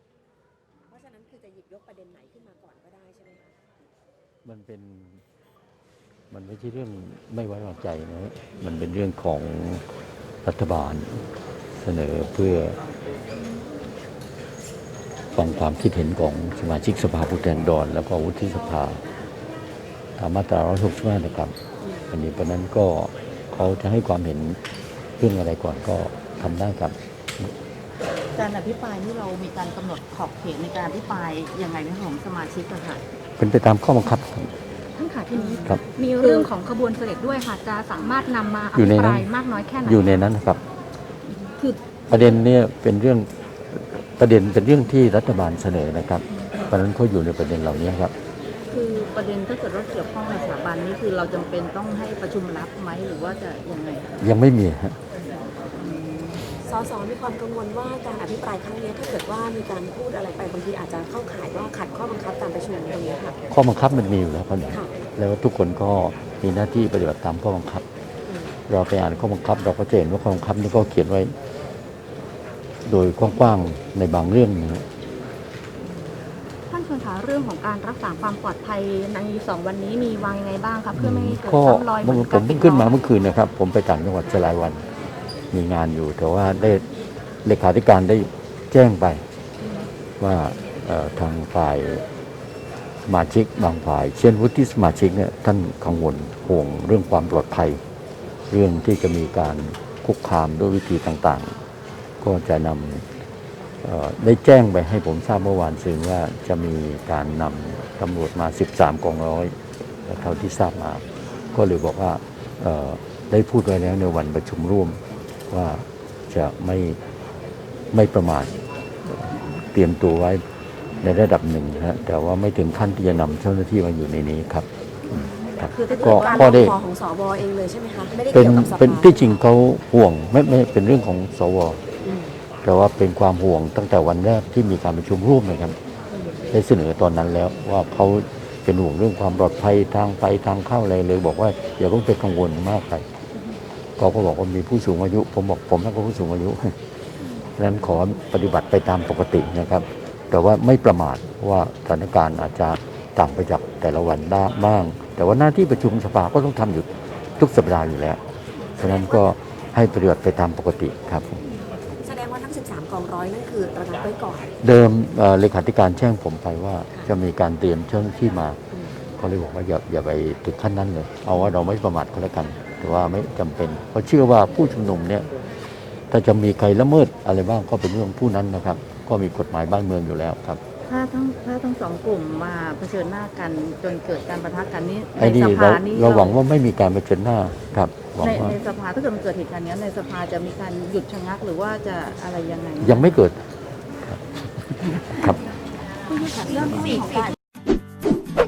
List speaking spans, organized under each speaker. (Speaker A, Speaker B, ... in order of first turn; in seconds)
Speaker A: 0.9-3.6, 56.6-63.4, 68.3-68.5, 125.9-129.4, 132.0-132.4, 136.1-136.6, 158.8-159.2, 161.9-164.5, 168.7-169.0
Speaker B: 4.4-5.2, 6.3-9.9, 10.4-11.2, 11.8-12.8, 15.3-19.0, 20.2-21.5, 22.1-24.6, 25.2-27.5, 33.4-34.5, 38.7-39.3, 39.9-40.6, 42.1-48.1, 54.2-55.0, 63.5-67.8, 68.7-71.3, 72.8-74.9, 81.0-84.8, 85.5-86.8, 87.4-89.2, 90.2-92.0, 93.1-97.8, 98.5-101.6, 102.2-103.1, 103.8-117.0, 117.9-120.4, 121.0-126.8, 128.3-131.8, 132.6-135.8, 136.5-143.1, 144.0-146.8, 147.6-156.9, 157.4-158.2, 158.8-161.4, 164.6-168.6, 169.2-175.3, 176.1-180.6, 185.2-188.6, 192.8-193.4, 194.0-195.4
Speaker C: 28.3-33.0, 35.3-36.5, 48.7-54.1, 55.7-56.5, 125.6-126.6, 180.9-186.4, 188.2-193.2, 196.1-197.3
Speaker D: 35.0-40.1, 76.7-83.0